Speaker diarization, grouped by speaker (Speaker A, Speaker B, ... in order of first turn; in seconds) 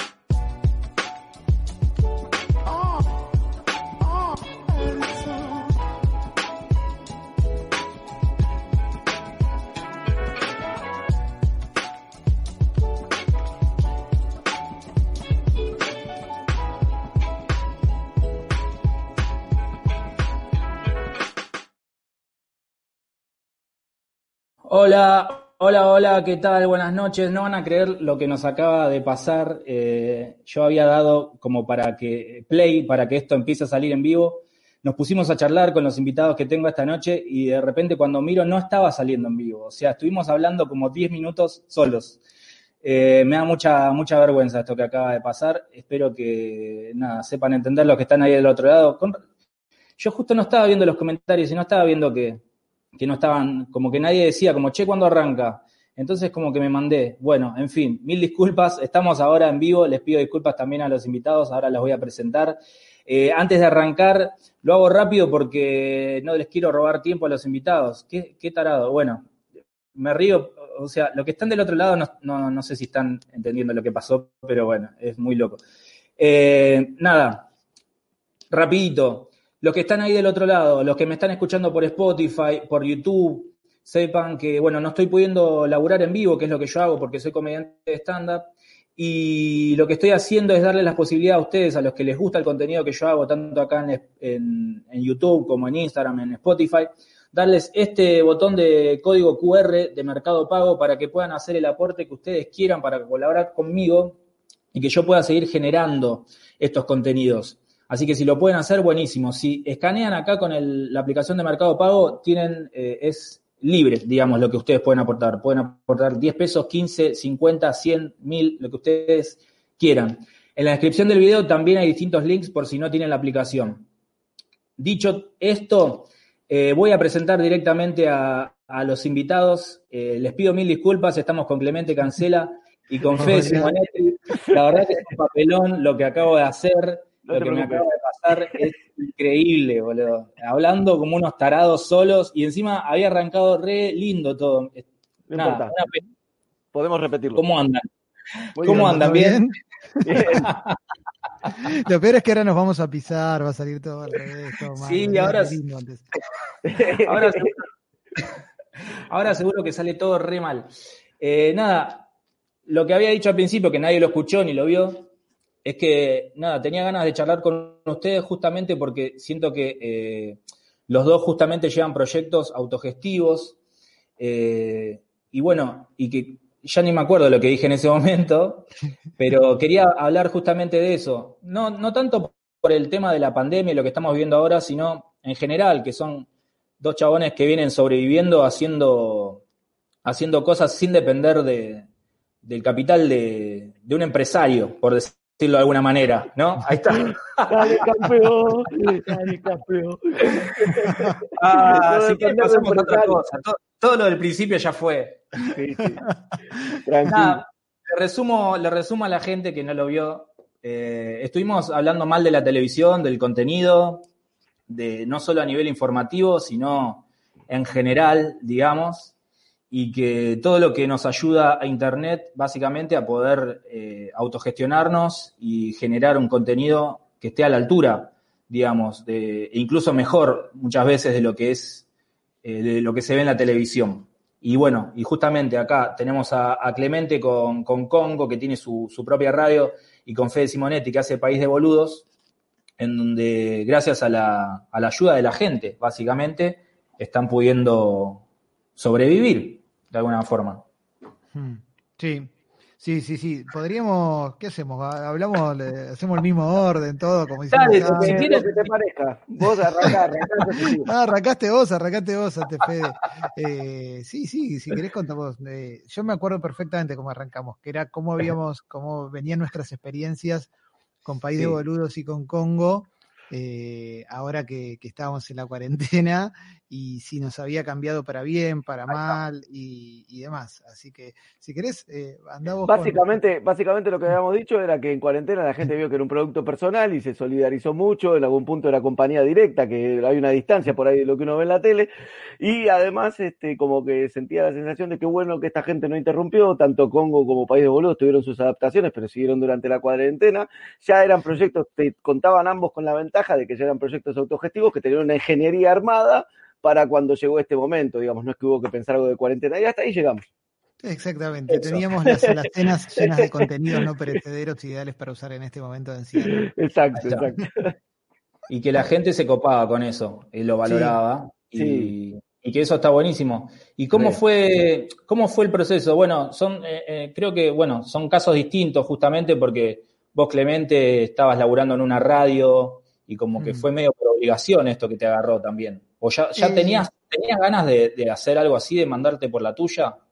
Speaker A: 24.7-42.2, 42.8-49.2, 50.0-52.4, 53.0-69.3, 70.0-75.6, 76.2-77.5, 78.5-104.2, 104.7-123.9, 124.8-146.0, 147.4-147.9, 148.6-149.4, 150.3-150.8, 154.8-155.6, 157.1-157.6, 159.1-162.1, 162.7-165.1, 165.6-173.6, 174.2-186.3, 186.8-189.4, 190.1-191.9, 192.4-197.8, 201.4-205.5, 207.1-214.1, 214.7-219.1, 219.7-231.8, 232.4-242.0, 242.8-248.2, 248.8-250.6, 257.5-258.7, 316.9-317.3, 318.5-340.0
Speaker B: 133.2-133.7, 148.7-150.5, 151.5-156.1, 200.9-201.1, 251.3-258.3, 260.9-270.5, 271.0-283.2, 310.8-316.4, 333.4-333.7, 336.4-336.9
Speaker C: 133.2-133.7, 134.5-134.8, 137.2-138.6, 145.3-145.7, 146.7-147.4, 148.6-149.2, 150.0-150.5, 156.6-157.5, 197.4-203.2, 205.4-206.0, 206.7-207.4, 257.8-260.9, 278.9-279.2, 282.7-310.3, 311.5-314.1, 316.2-317.7, 321.6-321.9, 323.9-324.2